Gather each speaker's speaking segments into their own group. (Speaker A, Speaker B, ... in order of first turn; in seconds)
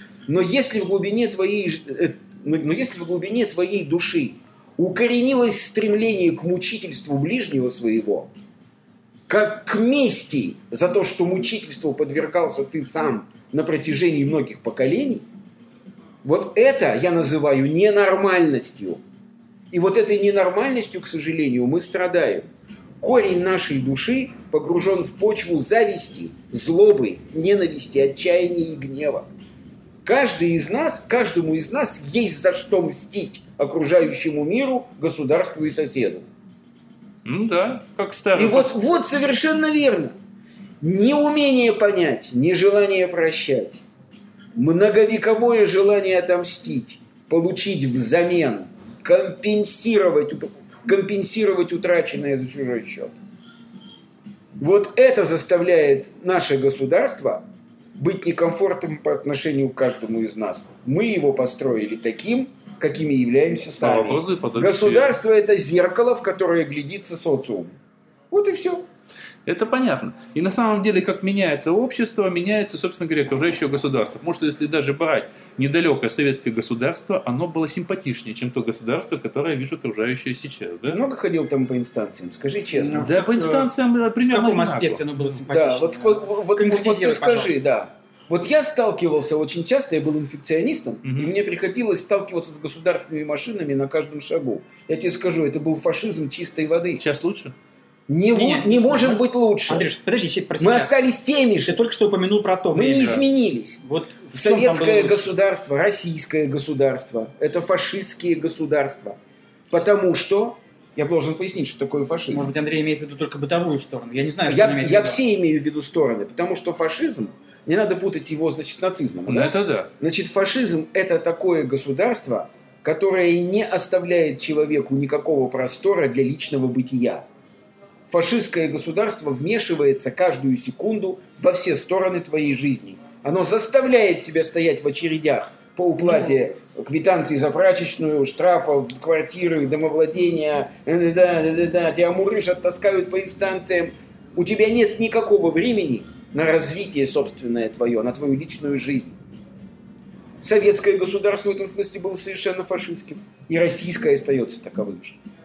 Speaker A: 0.3-8.3, 9.3-15.3, 16.2-19.0, 19.7-22.5, 23.0-29.3, 30.1-36.3, 38.3-40.1, 40.8-43.8, 44.6-53.1, 54.6-57.4, 58.0-67.8, 68.3-68.9, 80.9-83.1, 85.5-97.0, 98.1-99.9, 100.6-101.8, 102.7-103.8, 104.3-109.2, 109.7-112.5, 114.5-127.3, 128.1-149.2, 150.4-155.2
Speaker B: 37.2-38.7, 63.8-65.2, 69.5-81.0, 83.0-85.2, 91.0-91.3, 97.0-97.5, 119.3-119.9
Speaker C: 82.8-83.7, 84.3-87.5, 98.3-101.0, 101.6-103.2, 103.8-105.3, 112.3-115.2